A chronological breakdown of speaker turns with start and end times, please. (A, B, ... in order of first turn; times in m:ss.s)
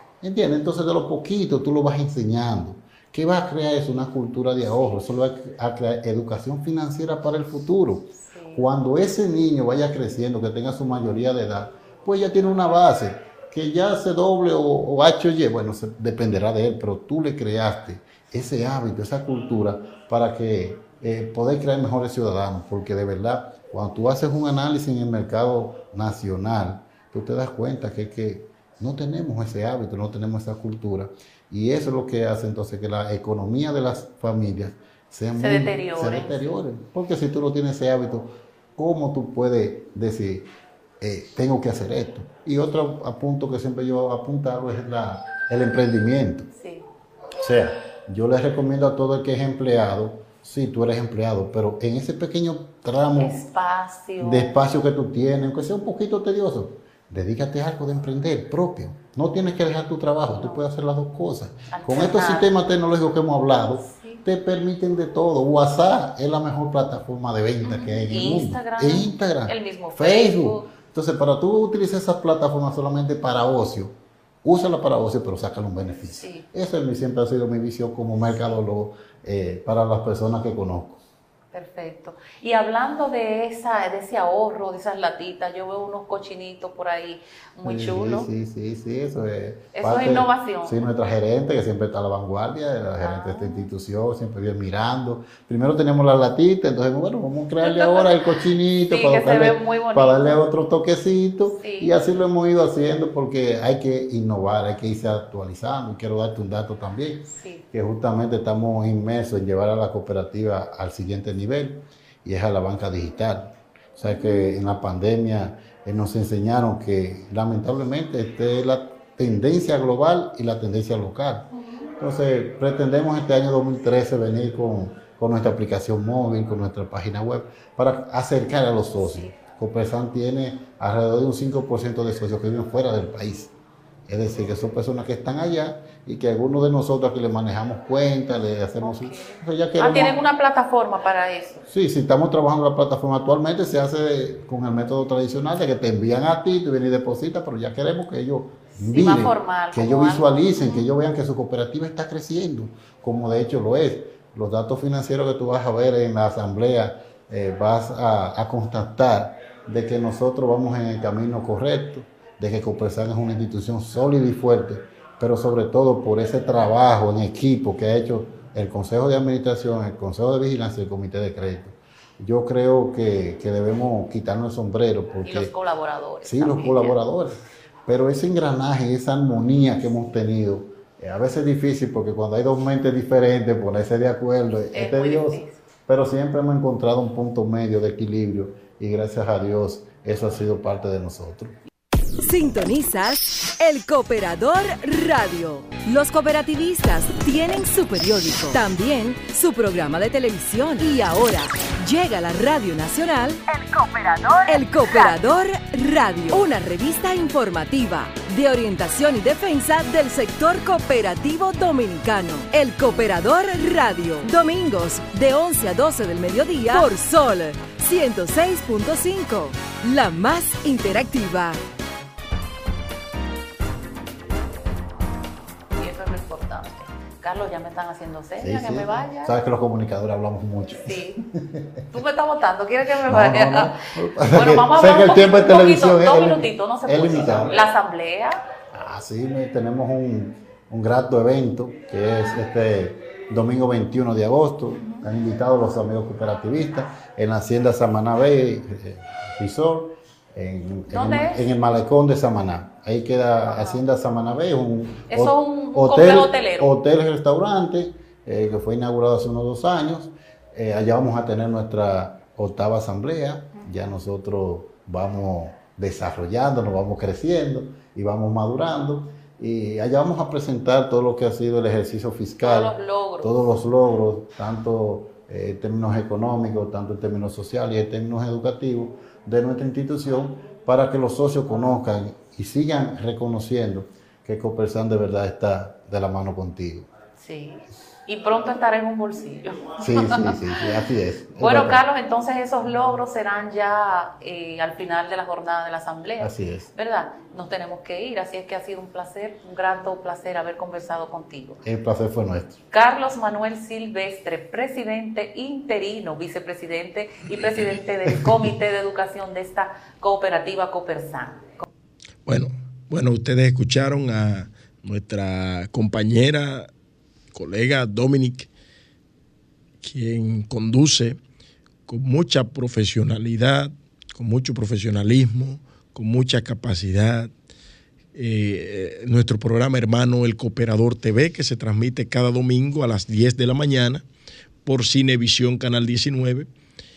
0:00.2-0:40.5 A
0:08.2-0:08.6 B
0:35.4-0:36.5 B
0:41.0-0:46.5 A
0:46.5-0:46.9 B
0:47.4-0:53.4 A
0:53.2-0:54.5 B
0:54.2-1:21.0 A
1:00.4-1:00.6 B
1:01.7-1:02.5 B
1:03.8-1:04.2 B
1:07.6-1:10.7 B
1:16.1-1:16.5 B
1:21.5-1:28.3 B
1:27.6-2:13.5 A
1:29.8-1:30.9 B
1:33.0-1:33.7 B
1:37.6-1:40.4 B
1:41.5-1:42.0 B
1:47.3-1:47.6 B
1:54.0-1:54.5 B
2:08.8-2:09.3 B
2:14.1-2:20.2 A
2:18.8-2:21.7 B
2:21.7-2:55.5 A
2:28.8-2:30.9 B
2:55.2-2:57.0 B
2:56.2-2:57.4 A
2:57.9-3:11.6 A
3:04.7-3:05.6 B
3:12.2-3:23.4 C
3:23.7-3:24.4 B
3:24.4-3:41.6 C
3:45.8-3:49.4 B
3:48.4-3:51.8 A
3:50.8-3:51.2 B
3:51.9-3:58.4 B
3:53.0-3:57.6 A
3:58.7-4:46.9 A
4:04.8-4:05.0 B
4:10.9-4:11.5 B
4:13.4-4:13.8 B
4:15.1-4:16.8 B
4:32.4-4:33.4 B
4:47.2-4:50.8 B
4:49.8-4:51.8 A
4:51.4-5:01.6 B
4:56.2-4:56.7 A
5:01.6-5:02.6 A
5:02.7-5:11.6 B
5:12.3-5:16.7 D
5:17.3-5:18.5 D
5:19.8-5:21.2 D
5:21.9-5:27.3 D
5:28.1-5:34.0 D
5:34.6-5:36.5 D